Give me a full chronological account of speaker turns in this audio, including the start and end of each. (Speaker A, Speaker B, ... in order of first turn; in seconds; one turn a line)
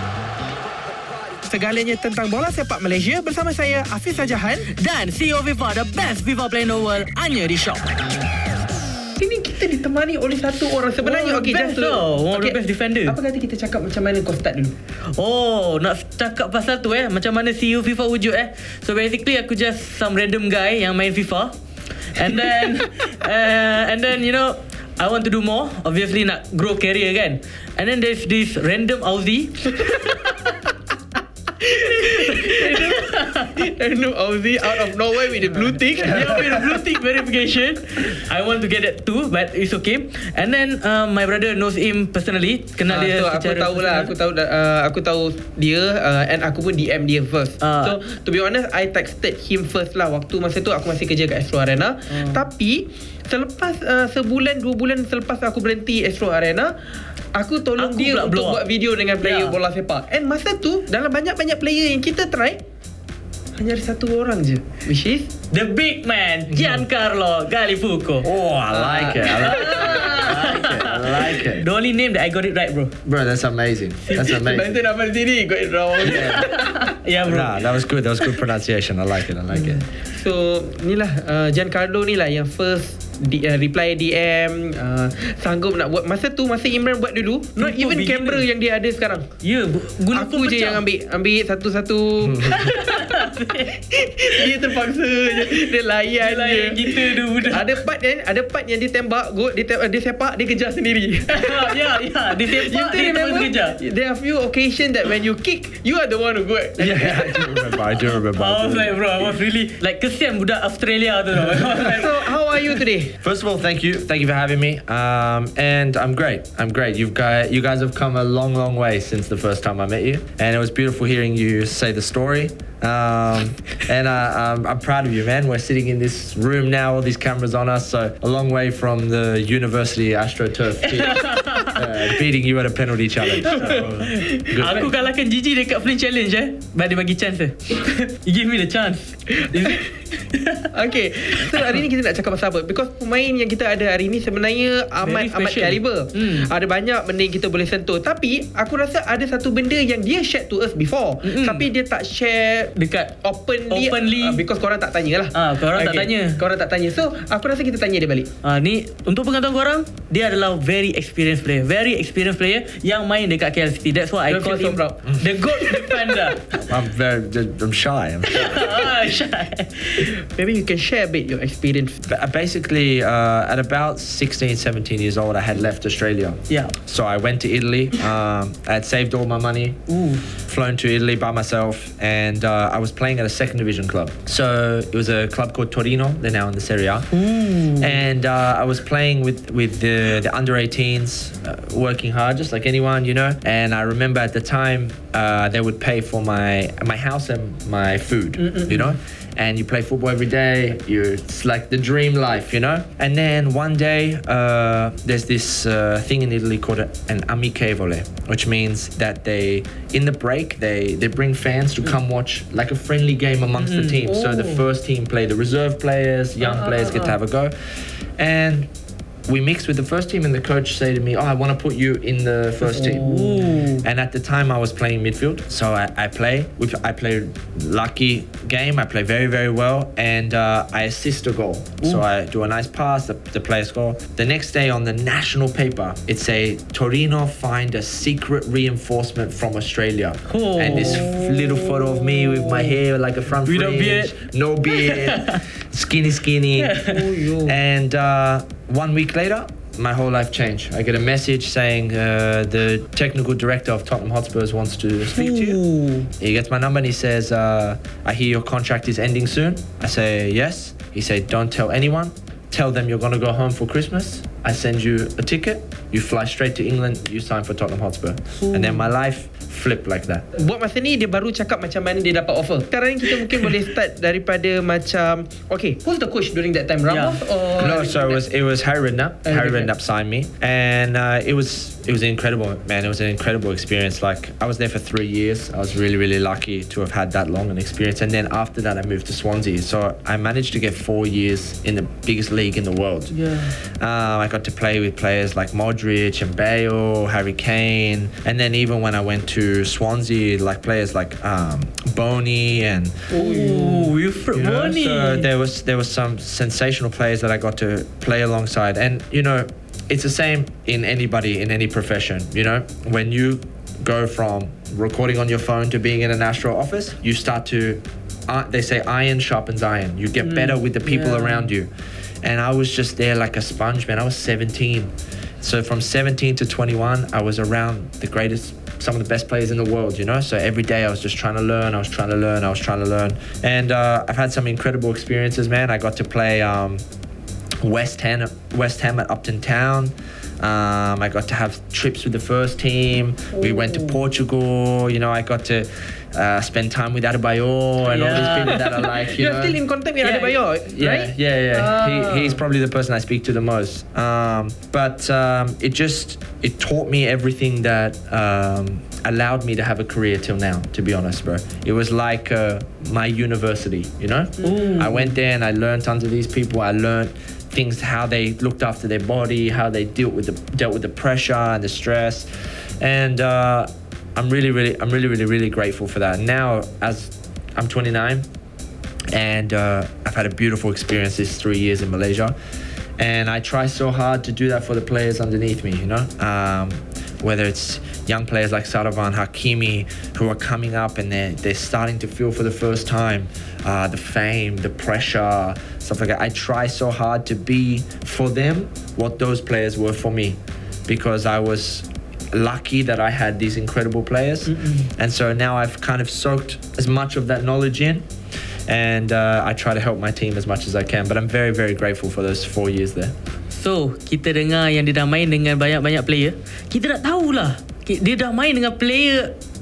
Speaker A: 1.4-4.8
Speaker B: 4.7-8.0
Speaker A: 9.2-14.7
Speaker B: 11.0-13.2
Speaker B: 15.1-21.6
Speaker B: 22.1-30.4
Speaker A: 31.6-36.5
Speaker B: 32.3-33.6
Speaker B: 36.0-44.1
Speaker C: 36.2-36.6
Speaker A: 42.9-62.6
Speaker B: 47.6-48.0
Speaker B: 52.1-52.5
Speaker B: 57.8-58.6
Speaker B: 59.2-59.5
Speaker A: 63.5-65.3
Speaker B: 65.5-72.9
Speaker C: 66.5-66.8
Speaker C: 68.2-71.7
Speaker C: 73.0-74.7
Speaker A: 74.1-76.9
Speaker C: 76.0-76.5
Speaker B: 76.3-78.4
Speaker C: 77.2-79.8
Speaker B: 79.5-79.8
Speaker A: 80.0-89.3
Speaker B: 87.6-88.4
Speaker B: 89.4-90.8
Speaker A: 90.1-107.6
Speaker C: 92.2-92.7
Speaker B: 92.5-94.6
Speaker B: 95.3-97.8
Speaker B: 101.3-103.8
Speaker C: 106.8-109.2
Speaker B: 107.7-112.8
Speaker A: 111.7-113.2
Speaker C: 113.2-134.9
Speaker B: 130.8-132.2
Speaker B: 133.4-140.7
Speaker A: 139.3-139.8
Speaker A: 140.7-158.3
Speaker B: 145.0-146.5
Speaker B: 151.2-151.7
Speaker B: 152.8-153.1
Speaker B: 153.7-154.4
Speaker B: 155.3-156.4
Speaker B: 158.4-166.7
Speaker A: 164.3-166.3
Speaker C: 166.6-168.8
Speaker B: 168.3-170.1
Speaker A: 170.0-172.0
Speaker C: 172.0-179.8
Speaker B: 176.5-176.7
Speaker B: 179.9-180.2
Speaker C: 180.3-187.1
Speaker B: 187.1-188.0
Speaker C: 187.8-217.5
Speaker A: 198.4-198.9
Speaker B: 213.6-214.1
Speaker A: 214.0-214.7
Speaker A: 216.4-217.2
Speaker C: 218.2-218.7
Speaker C: 219.3-255.6
Speaker B: 222.6-223.8
Speaker A: 222.9-223.2
Speaker B: 240.3-242.8
Speaker B: 243.4-245.4
Speaker B: 246.6-247.0
Speaker A: 246.8-247.6
Speaker B: 255.1-256.1
Speaker C: 256.2-270.2
Speaker B: 268.4-268.9
Speaker A: 270.3-278.2
Speaker B: 276.9-277.2
Speaker C: 277.6-293.1
Speaker A: 279.2-279.7
Speaker B: 293.1-293.5
Speaker C: 293.8-303.1
Speaker A: 303.1-303.9
Speaker B: 303.1-305.3
Speaker C: 304.3-321.7
Speaker B: 320.2-321.5
Speaker C: 322.2-336.8
Speaker C: 337.6-349.6
Speaker A: 343.3-344.0
Speaker B: 347.9-348.8
Speaker A: 348.4-352.4
Speaker B: 350.0-350.4
Speaker C: 350.7-372.2
Speaker B: 364.4-365.1
Speaker C: 372.8-378.2
Speaker C: 379.1-382.3
Speaker C: 383.0-408.1
Speaker A: 404.5-404.9
Speaker C: 408.7-413.1
Speaker B: 413.5-419.3